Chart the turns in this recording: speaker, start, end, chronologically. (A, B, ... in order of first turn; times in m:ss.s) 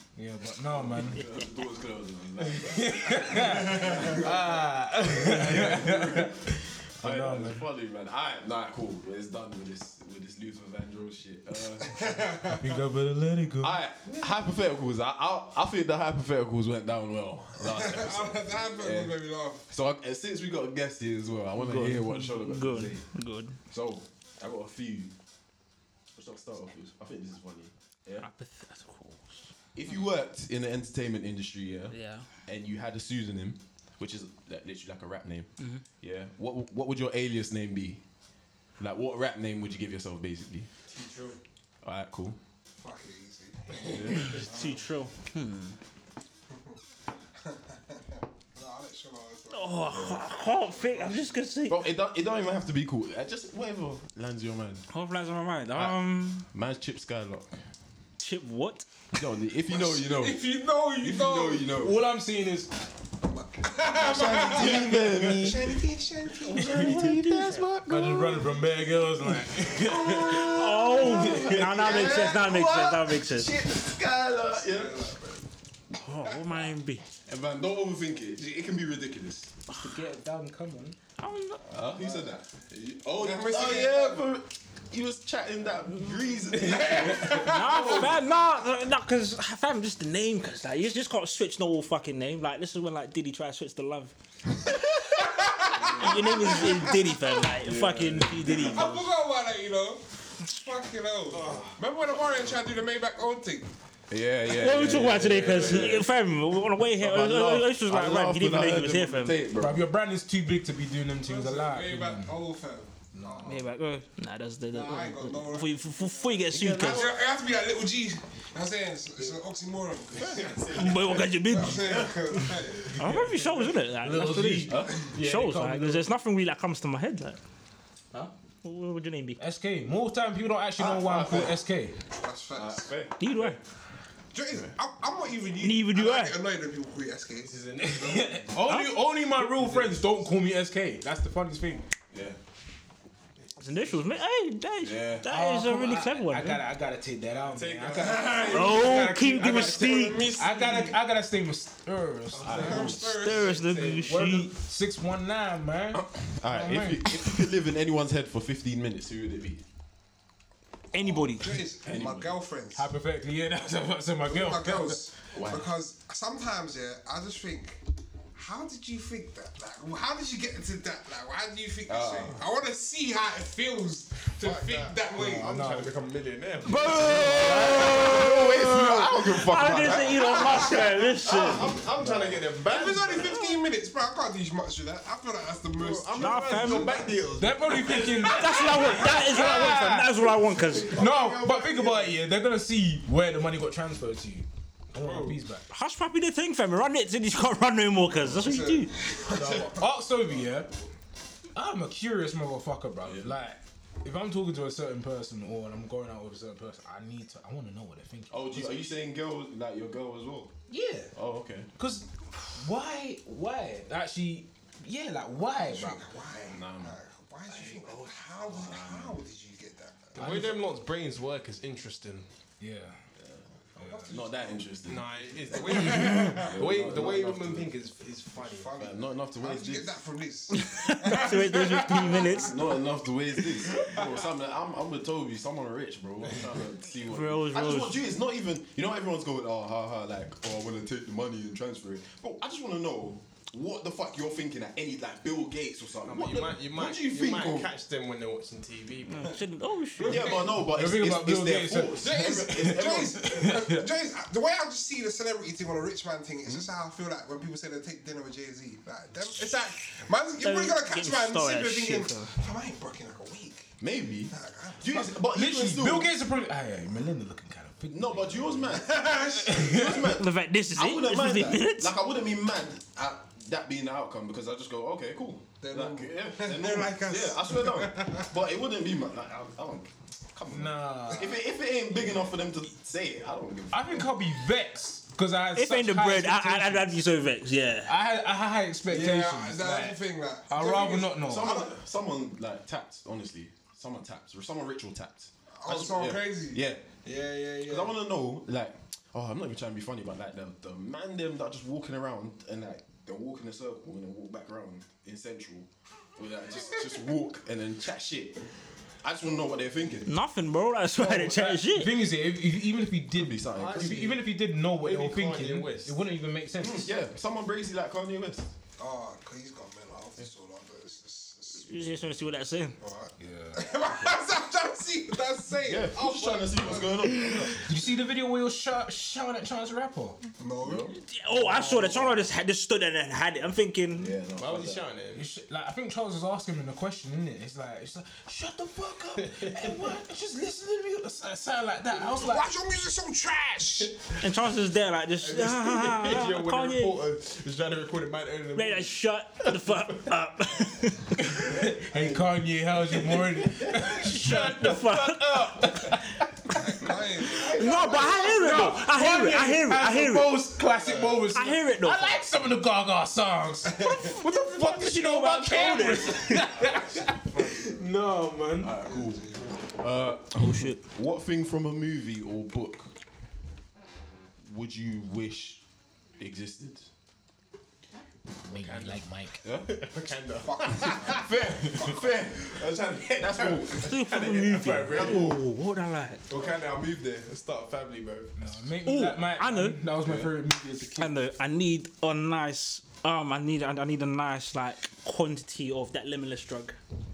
0:00.2-0:01.2 A
0:00.7-0:06.5 B
0:02.4-0:07.6 A
0:03.8-0:04.2 C
0:07.0-0:12.3 B
0:11.9-0:12.7 C
0:12.5-0:13.8 A
0:13.6-0:19.2 B
0:17.5-0:19.6 C
0:19.7-0:23.0 B
0:21.6-0:22.9 A
0:21.8-0:23.6 D
0:23.7-0:25.1 B
0:26.1-0:28.3 B
0:28.2-0:29.4 D
0:29.8-0:35.5 B
0:31.9-0:32.3 D
0:35.6-0:35.8 D
0:36.0-0:38.0 B
0:38.8-0:40.7 B
0:40.9-0:41.4 E
0:41.8-0:42.4 B
0:42.8-0:44.9 C
0:43.8-0:44.4 B
0:44.1-0:45.8 D
0:47.4-0:51.4 C
0:49.5-0:51.8 D
0:49.9-0:50.2 B
0:51.7-0:54.9 B
0:54.9-0:56.5 D
0:55.7-0:57.6 B
0:58.2-0:58.9 D
0:59.1-1:00.4 B
0:59.7-1:01.7 C
1:01.0-1:02.0 B
1:01.7-1:02.7 A
1:03.2-1:07.2 C
1:04.0-1:05.8 B
1:06.4-1:08.6 B
1:06.7-1:07.6 D
1:07.9-1:11.7 A
1:09.6-1:15.2 B
1:10.2-1:13.6 D
1:11.8-1:12.3 C
1:14.5-1:15.4 C
1:16.0-1:17.0 D
1:16.3-1:16.7 C
1:17.3-1:19.6 B
1:19.7-1:21.0 A
1:21.2-1:21.7 D
1:21.7-1:28.2 B
1:22.0-1:22.3 C
1:23.2-1:24.2 C
1:26.6-1:28.1 C
1:27.2-1:35.3 D
1:35.0-1:37.4 C
1:35.8-1:36.1 B
1:36.0-1:39.1 D
1:37.6-1:39.0 B
1:38.6-1:43.7 C
1:41.3-1:41.8 E
1:44.1-1:46.2 B
1:44.5-1:49.4 D
1:46.9-1:49.8 B
1:49.6-1:52.4 A
1:51.2-1:53.6 C
1:53.2-1:53.5 A
1:53.4-1:57.1 D
1:54.7-2:03.0 C
1:56.5-1:57.1 B
2:00.1-2:01.3 E
2:00.7-2:07.4 D
2:01.8-2:02.2 B
2:03.0-2:06.1 A
2:04.7-2:05.1 B
2:08.6-2:09.4 D
2:09.4-2:12.0 A
2:10.8-2:11.6 B
2:12.1-2:12.9 C
2:12.5-2:13.6 B
2:13.2-2:13.6 D
2:14.3-2:17.5 C
2:15.6-2:16.4 D
2:17.4-2:18.6 E
2:17.8-2:21.8 A
2:18.7-2:19.0 D
2:19.4-2:20.3 E
2:22.1-2:22.4 B
2:23.4-2:24.2 E
2:23.6-2:26.6 D
2:24.8-2:25.3 B
2:25.3-2:32.9 A
2:27.4-2:31.0 E
2:28.0-2:30.3 C
2:28.4-2:30.3 D
2:32.3-2:32.9 E
2:32.4-2:33.2 B
2:32.5-2:34.0 C
2:32.7-2:34.5 D
2:33.9-2:37.3 A
2:35.9-2:39.6 B
2:40.9-2:41.6 D
2:41.0-2:42.9 C
2:41.8-2:42.4 B
2:42.8-2:45.0 A
2:44.2-2:47.8 C
2:45.3-2:45.7 B
2:48.4-2:55.6 C
2:51.9-2:52.4 B
2:54.4-2:58.0 E
2:55.2-2:55.9 A
2:56.7-3:01.8 D
2:57.0-2:57.9 A
2:57.5-3:00.4 B
2:59.9-3:01.0 C
3:01.0-3:03.4 E
3:02.0-3:02.4 A
3:02.6-3:07.0 C
3:05.7-3:12.2 E
3:06.2-3:07.1 D
3:07.4-3:10.2 A
3:08.2-3:11.0 D
3:08.7-3:09.1 C
3:10.9-3:15.7 A
3:14.9-3:15.4 E
3:15.7-3:18.9 D
3:18.3-3:19.9 C
3:19.3-3:20.7 A
3:21.5-3:28.8 A
3:23.0-3:23.3 B
3:28.3-3:30.6 B
3:30.7-3:31.1 A
3:31.1-3:31.7 B
3:31.8-3:36.0 A
3:35.7-3:40.4 C
3:36.4-3:37.0 B
3:37.5-3:38.7 E
3:38.5-3:39.2 B
3:40.2-3:42.3 E
3:40.2-3:40.5 A
3:42.6-3:43.0 A
3:43.2-3:43.4 B
3:43.8-3:44.1 A
3:43.8-3:44.7 C
3:44.1-3:47.7 B
3:44.9-3:48.7 E
3:45.5-3:46.6 C
3:48.4-3:52.6 C
3:48.8-3:50.0 B
3:50.5-3:52.6 D
3:52.3-4:07.7 B
3:53.7-3:54.2 C
3:57.0-3:58.0 D
4:06.0-4:09.4 E
4:09.1-4:10.4 D
4:10.0-4:10.6 C
4:10.0-4:13.5 B
4:10.6-4:13.9 A
4:12.0-4:23.7 C
4:20.4-4:22.3 D
4:23.8-4:26.2 B
4:24.3-4:24.9 C
4:24.9-4:28.8 A
4:27.9-4:44.1 B
4:28.8-4:29.7 C
4:29.5-4:30.0 A
4:30.0-4:31.9 D
4:35.6-4:38.3 C
4:40.5-4:41.4 A
4:43.7-4:47.0 A
4:45.6-4:47.9 D
4:47.8-4:51.5 A
4:48.9-4:51.7 C
4:51.2-4:56.9 B
4:55.6-4:57.9 C
4:57.6-5:08.5 B
5:09.0-5:10.2 B
5:10.1-5:12.0 D
5:11.0-5:16.9 A
5:13.1-5:14.2 B
5:13.6-5:16.0 E
5:16.6-5:18.5 B
5:18.8-5:22.0 C
5:21.6-5:22.8 D
5:22.8-5:27.5 C
5:23.2-5:23.6 A
5:25.6-5:27.7 B
5:27.6-5:30.2 A
5:30.4-5:30.9 C
5:30.6-5:32.3 B
5:31.1-5:34.2 D
5:34.0-5:34.9 B
5:34.4-5:35.3 E
5:35.1-5:42.5 A
5:39.2-5:40.0 E
5:42.1-5:44.2 C
5:44.2-5:47.0 D
5:45.2-5:50.1 E
5:48.6-5:51.1 D
5:51.2-5:56.9 A
5:51.9-5:52.2 B
5:53.4-5:53.9 B
5:53.9-5:55.8 D
5:56.6-5:58.2 C
5:57.3-5:58.5 B
5:57.4-6:00.3 D
5:58.2-6:08.8 A
6:01.0-6:01.2 C
6:01.3-6:02.2 D
6:04.0-6:06.5 D
6:06.6-6:07.8 E
6:08.6-6:12.9 B
6:08.8-6:09.6 C
6:10.4-6:10.8 D
6:14.4-6:15.6 B
6:16.2-6:16.9 B
6:18.5-6:19.0 E
6:18.5-6:19.4 A
6:19.4-6:19.7 B
6:19.6-6:21.3 E
6:20.4-6:22.1 C
6:21.1-6:24.0 B
6:22.4-6:25.4 E
6:23.8-6:26.2 D
6:24.9-6:25.4 B
6:26.3-6:28.5 E
6:28.4-6:31.2 A
6:28.8-6:29.8 D
6:30.0-6:30.3 B
6:31.0-6:36.8 D